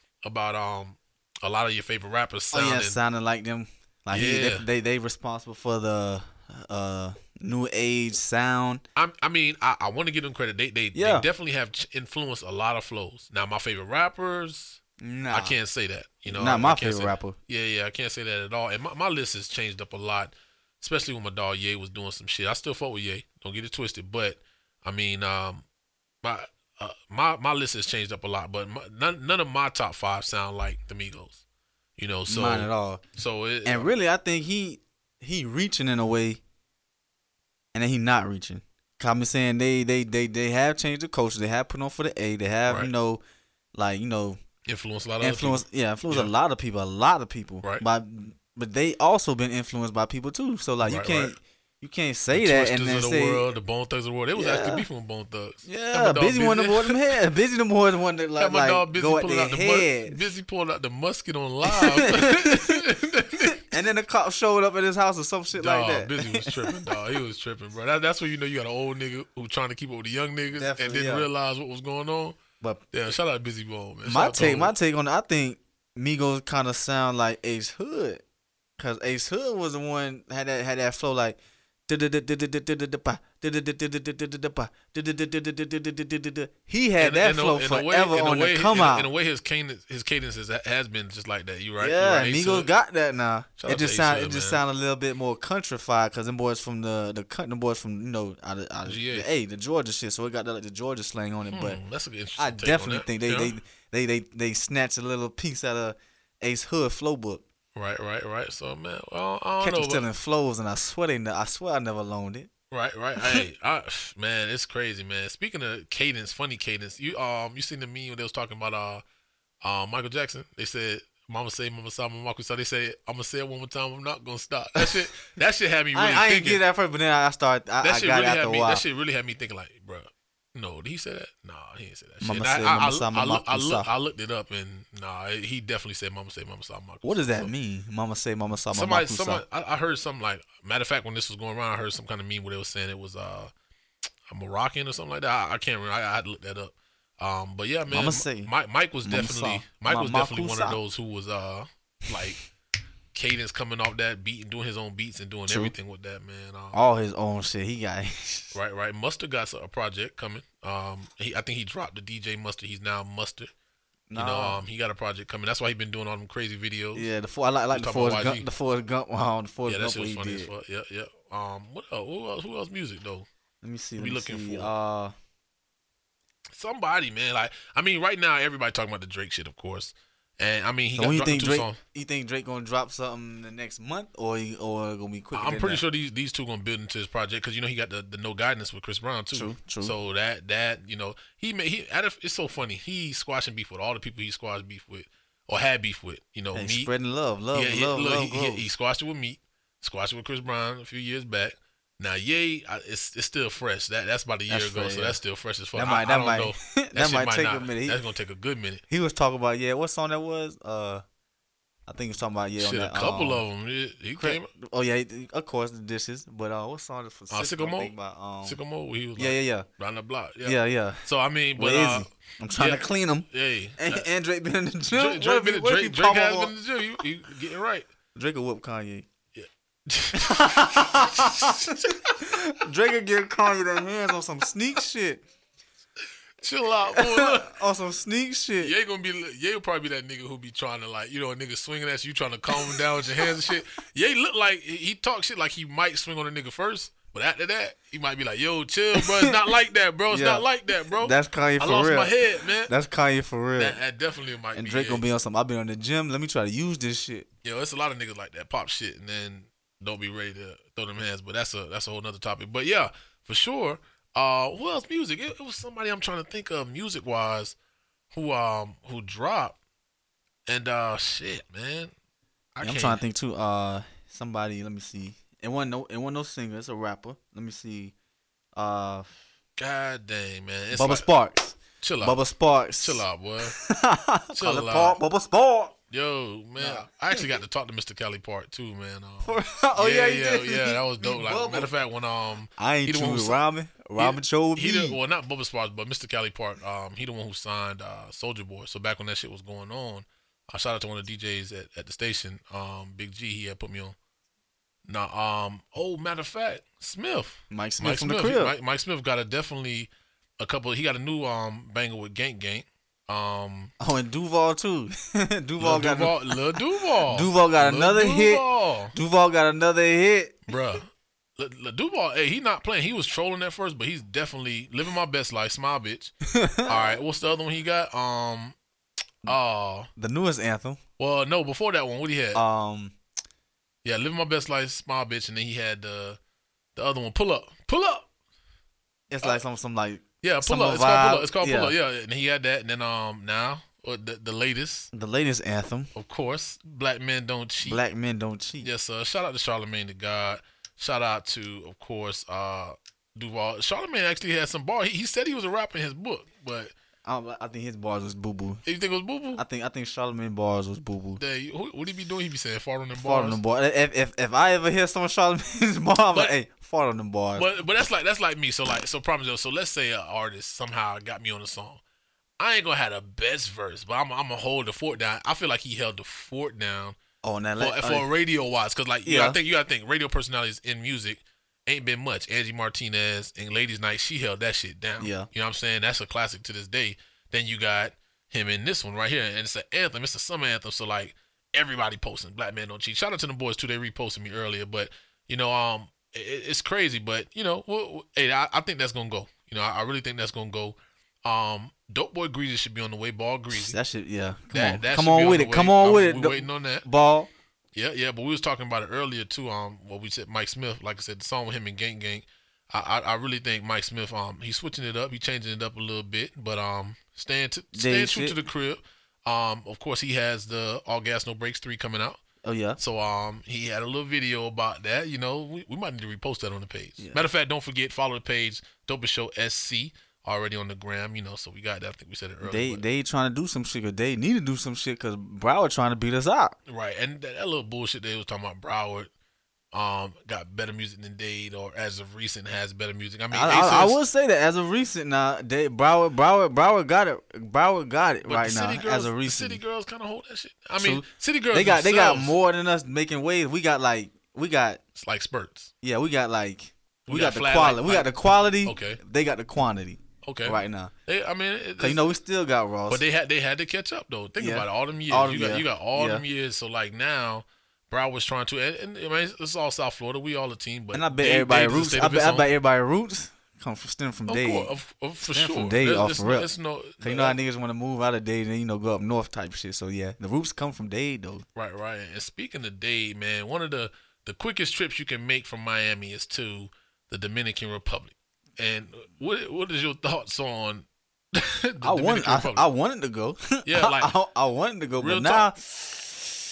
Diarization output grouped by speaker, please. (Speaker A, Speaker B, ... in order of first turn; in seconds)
Speaker A: 0.2-3.0, 4.1-4.6, 8.9-14.8, 15.3-25.6, 26.2-31.4, 32.0-33.9, 44.6-46.3, 50.8-51.3, 52.3-57.0, 58.4-63.6, 65.5-72.4, 72.9-74.7, 87.0-92.7, 93.6-94.6, 98.8-99.3, 101.5-103.5, 107.7-110.0, 112.7-119.0, 119.6-126.6, 127.8-137.5, 138.7-143.5, 144.3-152.4, 153.1-156.8, 158.5-163.5, 164.1-167.1, 167.7-168.5, 169.6-173.3, 174.0-174.7, 176.5-181.8, 185.3-196.9, 197.5-208.8, 212.6-214.5, 217.3-217.9, 218.4-224.1, 224.9-227.9, 229.3-232.0, 236.4-237.5, 238.6-252.7, 253.5-255.0, 257.4-267.5, 268.1-269.6, 270.5-271.9, 272.5-273.0, 279.6-281.1, 281.8-282.2, 282.8-283.6, 284.3-285.0, 285.9-293.4, 293.9-303.9, 304.9-313.7, 315.6-318.9, 320.5-326.1, 326.6-328.5, 329.2-329.9, 331.0-332.4, 333.8-336.2, 336.8-338.1, 340.2-344.9, 345.9-347.8, 348.6-356.7, 358.6-359.4, 361.2-363.4, 367.3-371.8, 372.4-377.0, 377.6-403.8, 404.5-406.9, 407.7-422.2, 422.8-432.8, 436.7-439.1, 439.7-444.0, 448.2-452.3, 455.0-455.7, 457.1-459.0, 460.2-462.0, 462.9-472.5, 474.3-477.4, 481.5-492.6, 493.6-494.1, 495.0-495.5
Speaker B: 2.5-8.8, 10.9-11.3, 15.0-15.6, 16.3-17.4, 32.3-33.0, 33.6-36.4, 37.7-43.2, 43.7-44.4, 45.2-53.5, 54.3-54.9, 55.6-60.2, 61.6-62.8, 63.4-66.9, 70.5-71.3, 74.0-78.2, 78.8-89.1, 91.8-101.8, 102.4-107.4, 109.6-112.5, 113.2-113.5, 124.8-125.0, 125.9-128.8, 132.2-133.9, 137.0-139.4, 147.9-148.5, 149.0-150.8, 155.5-155.7, 156.7-158.5, 164.1-164.6, 166.9-170.5, 173.6-175.1, 180.9-185.8, 189.3-189.9, 196.5-198.6, 204.5-205.2, 205.7-208.0, 208.9-211.0, 211.9-213.4, 214.2-218.6, 219.2-219.7, 220.4-221.0, 221.5-226.5, 228.1-229.1, 230.1-235.2, 236.9-238.7, 242.6-243.3, 248.9-249.3, 250.1-253.8, 254.5-257.3, 272.6-277.9, 278.5-279.1, 280.7-285.7, 286.6-287.3, 289.2-291.7, 292.6-295.0, 307.5-308.5, 313.8-320.5, 326.3-327.0, 329.9-330.8, 332.3-332.9, 339.1-341.7, 344.9-345.9, 347.6-348.7, 357.0-358.6, 359.3-361.2, 362.9-367.4, 377.2-378.1, 379.0-379.4, 385.0-385.3, 403.5-407.3, 417.7-418.4, 422.4-422.8, 427.0-427.2, 432.4-436.5, 443.3-449.6, 450.7-454.8, 455.8-460.9, 461.8-463.0, 464.4-466.2, 470.9-474.7, 475.3-481.4, 491.8-496.4